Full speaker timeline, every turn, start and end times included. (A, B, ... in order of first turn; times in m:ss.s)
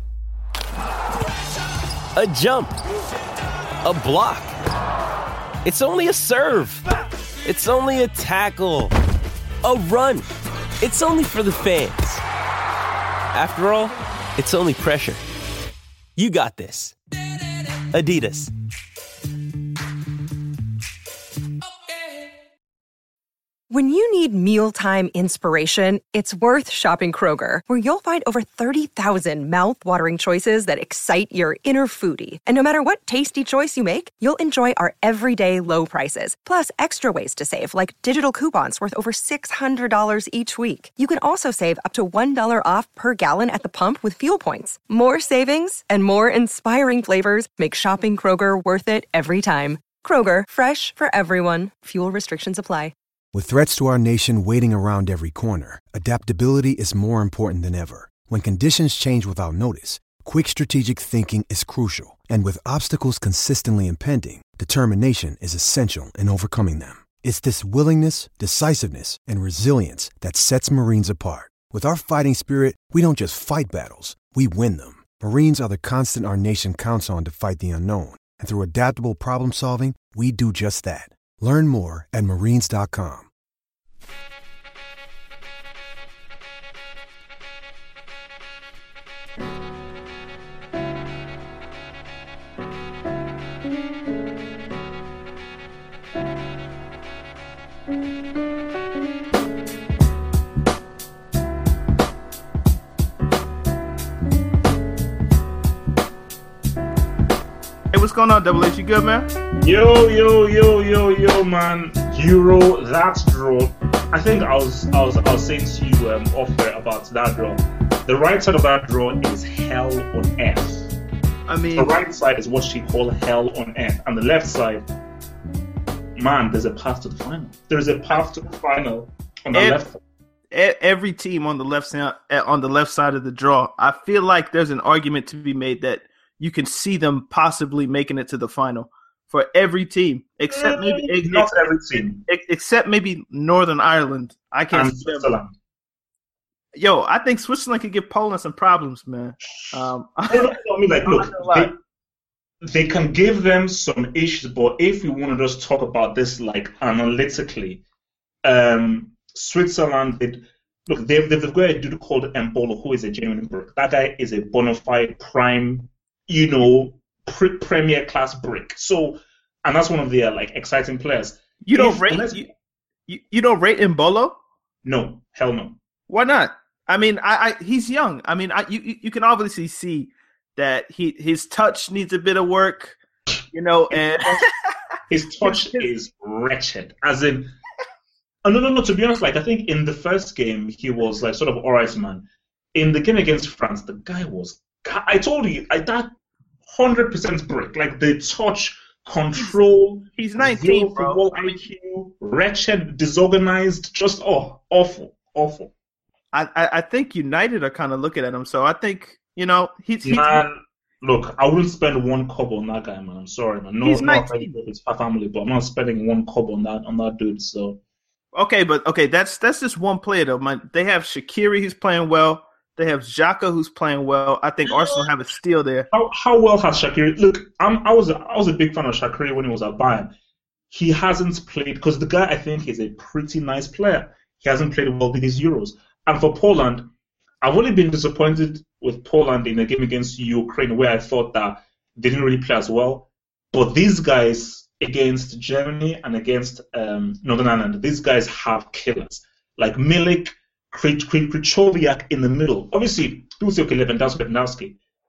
0:02.2-0:02.8 A
0:03.8-0:04.5 A
0:05.6-0:06.8 A
0:07.4-0:08.9 A
0:09.6-0:10.2 A
0:10.8-0:12.2 A
0:13.3-0:15.2 A
0:16.2-0:17.0 A
0:17.8-0:18.5 A
0:23.7-0:52.9 B
0:53.3-1:23.3 C
1:47.9-1:49.3 D
1:49.6-2:00.9 E
2:01.5-2:01.9 D
2:01.8-2:04.8 E
2:06.2-2:10.0 E
2:09.5-2:09.8 D
2:10.5-2:25.3 D
2:20.5-2:22.2 E
2:24.7-2:25.5 E
2:26.7-2:30.5 D
2:30.3-2:31.8 E
2:31.0-2:31.7 D
2:32.6-2:37.8 E
2:38.4-2:52.4 E
2:51.6-2:52.5 D
2:53.1-2:54.4 D
2:54.8-2:55.8 E
2:56.1-3:03.0 D
3:03.5-3:04.4 D
3:05.1-3:07.5 E
3:05.4-3:05.9 D
3:08.4-3:16.1 E
3:16.7-3:25.7 E
3:20.2-3:21.6 D
3:26.3-3:30.4 D
3:30.0-3:37.8 E
3:33.8-3:34.5 D
3:38.3-3:45.9 D
3:44.7-3:45.0 E
3:45.9-3:50.1 E
3:50.7-3:56.9 E
3:57.4-4:14.8 E